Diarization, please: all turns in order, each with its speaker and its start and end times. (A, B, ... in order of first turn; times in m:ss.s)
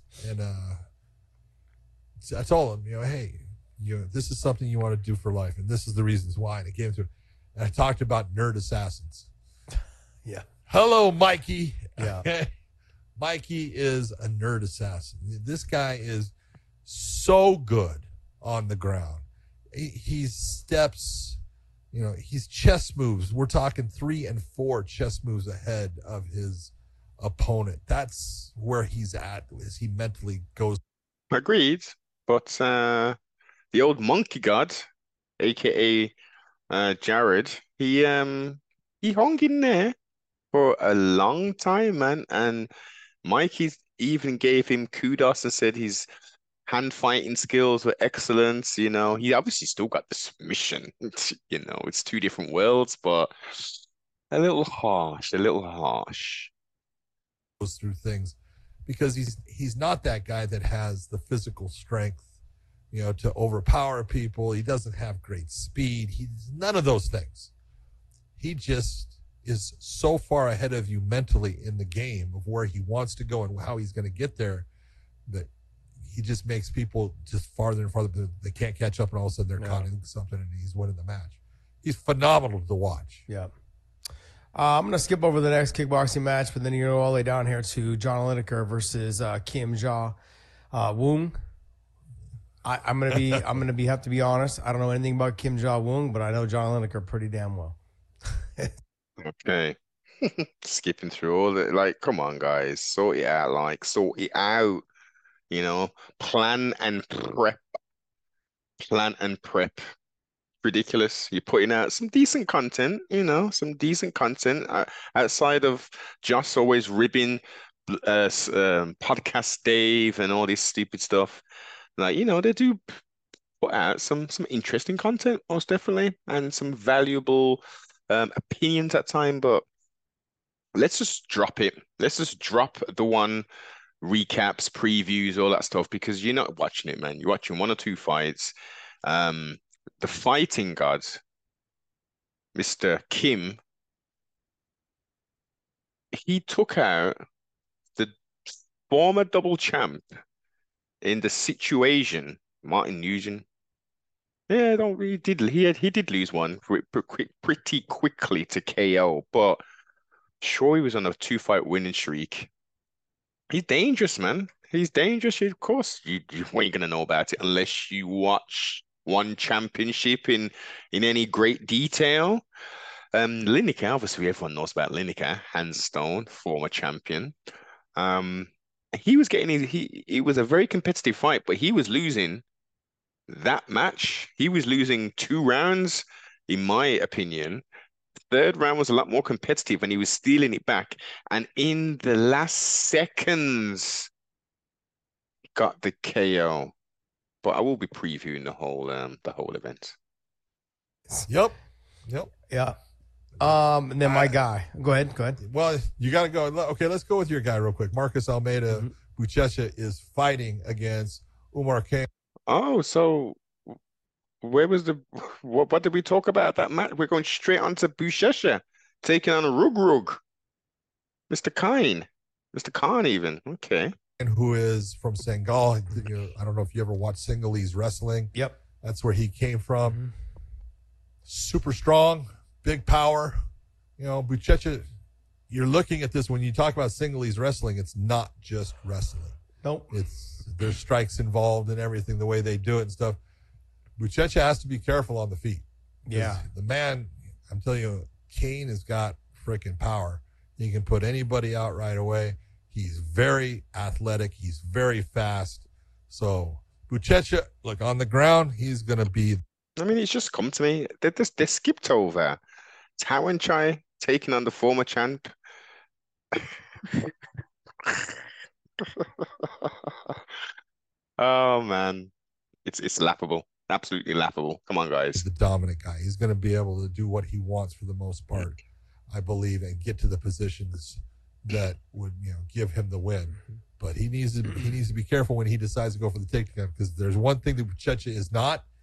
0:00.2-0:00.8 A
0:02.2-0:09.3 A
0:10.7-0:12.5 A
0:12.0-0:12.2 B
0:13.2-0:16.3 A
0:16.9-0:21.4 A
0:21.9-0:30.8 A
0:31.3-0:33.2 C
0:33.7-0:34.8 C
0:35.4-0:36.1 C
0:36.7-0:40.0 C
0:40.5-0:42.7 C
0:43.2-0:46.1 C
0:46.7-0:53.8 C
0:54.3-0:56.5 C
0:57.6-1:02.3 A
1:02.9-1:07.5 A
1:08.4-1:14.7 A
1:16.0-1:23.2 A
1:19.6-1:19.9 B
1:24.5-1:30.2 B
1:30.7-1:31.3 B
1:32.6-1:37.8 B
1:33.1-1:33.4 A
1:39.2-1:44.8 C
1:45.5-1:47.6 C
1:48.8-1:49.8 C
1:50.6-2:01.4 C
2:02.0-2:02.8 C
2:03.6-2:09.6 C
2:10.8-2:13.5 C
2:14.0-2:21.2 C
2:22.6-2:23.6 C
2:26.1-2:27.2 C
2:28.9-2:30.0 C
2:31.0-2:33.4 C
2:34.5-2:39.6 C
2:40.4-2:42.5 C
2:43.5-2:52.4 C
2:53.1-2:57.3 C
2:58.0-3:02.4 C
3:03.3-3:07.6 C
3:08.3-3:14.1 C
3:15.6-3:16.7 C
3:17.4-3:20.0 C
3:21.3-3:22.3 A
3:22.5-3:22.8 B
3:23.4-3:25.4 B
3:23.4-3:24.4 A
3:25.4-3:32.1 A
3:32.5-3:33.7 C
3:34.4-3:40.2 C
3:41.3-3:43.9 C
3:44.2-3:50.0 A
3:48.3-3:48.6 B
3:51.3-3:53.4 A
3:54.0-3:54.8 A
3:55.5-3:59.4 A
3:59.6-4:00.0 B
3:59.9-4:03.2 A
4:04.0-4:19.4 A
4:06.1-4:06.4 B
4:19.8-4:22.4 C
4:23.0-4:25.3 C
4:26.3-4:27.1 C
4:27.8-4:28.2 C
4:28.8-4:30.2 C
4:31.2-4:32.1 C
4:32.6-4:35.3 C
4:35.2-4:38.6 A
4:39.1-4:48.6 A